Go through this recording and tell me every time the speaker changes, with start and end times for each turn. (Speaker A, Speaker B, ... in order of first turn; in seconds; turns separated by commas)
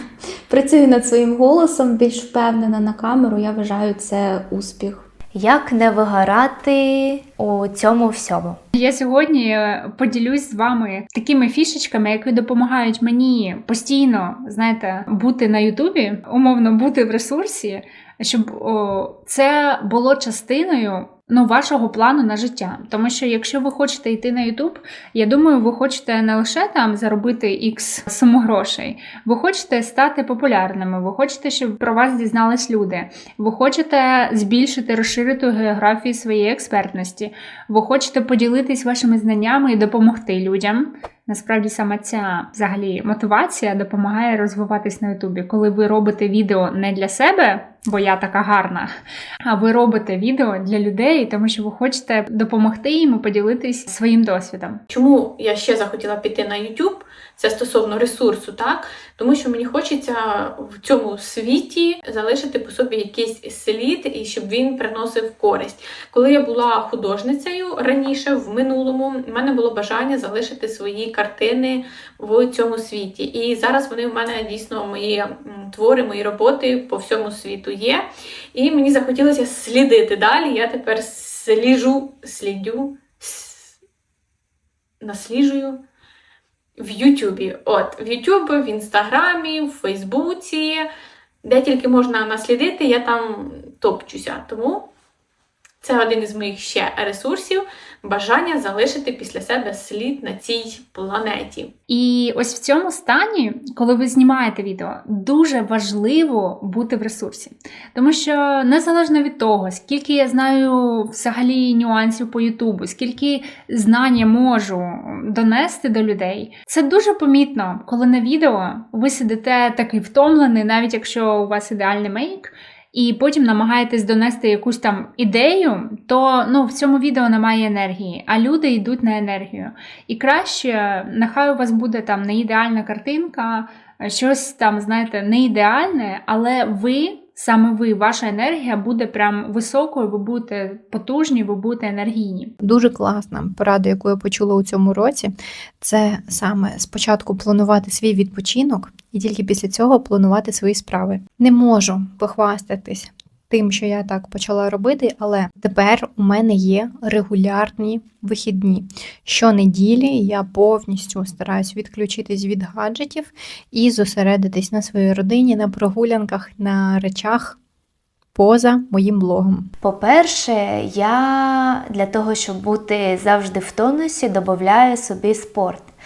Speaker A: 0.5-5.1, Speaker B: 5.3-8.6, Speaker C: 8.7-48.9, Speaker C: 49.5-54.8, Speaker D: 54.9-83.8, Speaker D: 85.0-85.8, Speaker D: 86.8-90.9, Speaker D: 91.4-94.9, Speaker D: 95.8-101.7, Speaker C: 101.9-142.5, Speaker E: 142.6-167.6, Speaker E: 168.3-169.7, Speaker B: 169.8-175.9